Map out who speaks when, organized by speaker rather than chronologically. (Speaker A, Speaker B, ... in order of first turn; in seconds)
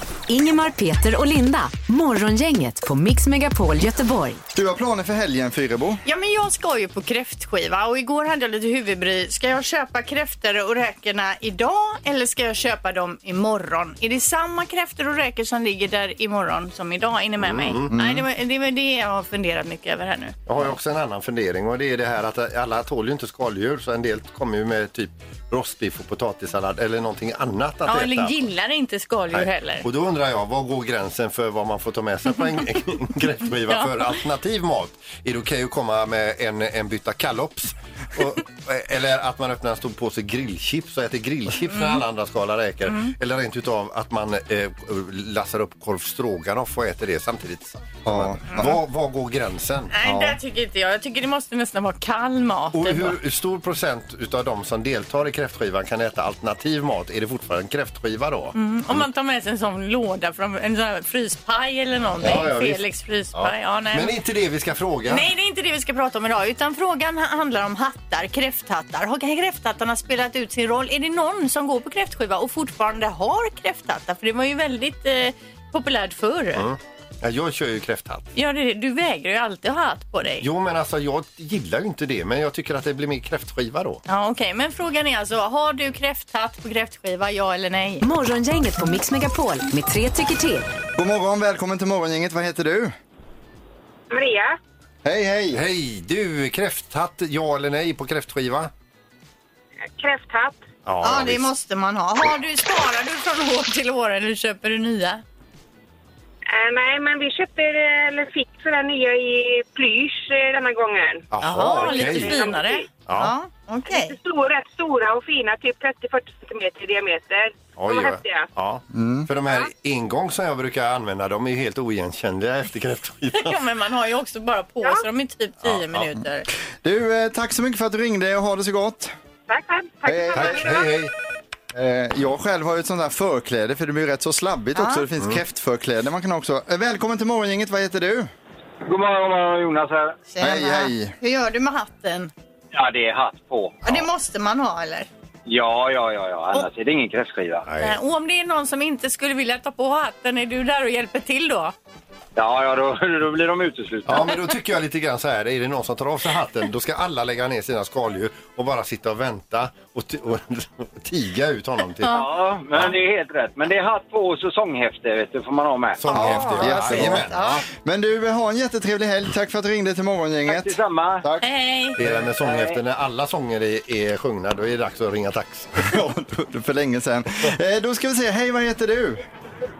Speaker A: 0.3-4.4, 88.0-90.7
Speaker B: 4.5-6.0, 17.9-18.2, 48.1-48.7, 50.0-50.4, 91.0-92.9, 95.0-95.6, 118.9-119.3, 126.8-129.1, 130.1-130.7, 131.7-138.3, 140.4-141.1, 166.1-171.5, 175.8-179.2
Speaker C: 6.0-20.4, 27.9-29.9, 33.7-34.1, 41.7-42.0, 42.9-43.1, 49.9-53.2, 58.5-64.2, 65.1-76.7, 78.3-80.5, 84.1-88.0, 101.0-105.2, 111.4-114.2, 123.3-126.5, 134.8-135.1, 140.3-142.3, 143.8-145.1, 147.8-151.7, 166.1-167.6, 171.4-172.0
Speaker D: 17.4-17.9, 20.5-28.5, 29.3-49.9, 52.7-59.1, 62.2-62.8, 63.3-65.3, 76.6-78.3, 80.4-84.0, 95.5-98.7, 100.9-101.5, 111.3-112.5, 113.0-113.3, 117.8-123.6, 125.6-126.1, 130.3-131.1, 147.7-148.0, 154.1-162.2, 166.0-167.6, 172.0-176.0
Speaker E: 94.1-94.6, 100.0-100.6, 106.5-112.9, 113.9-118.5, 129.5-130.9
Speaker F: 138.9-140.2, 142.7-144.0, 145.5-147.7, 152.4-154.3, 162.1-166.0, 170.5-171.2, 172.4-172.8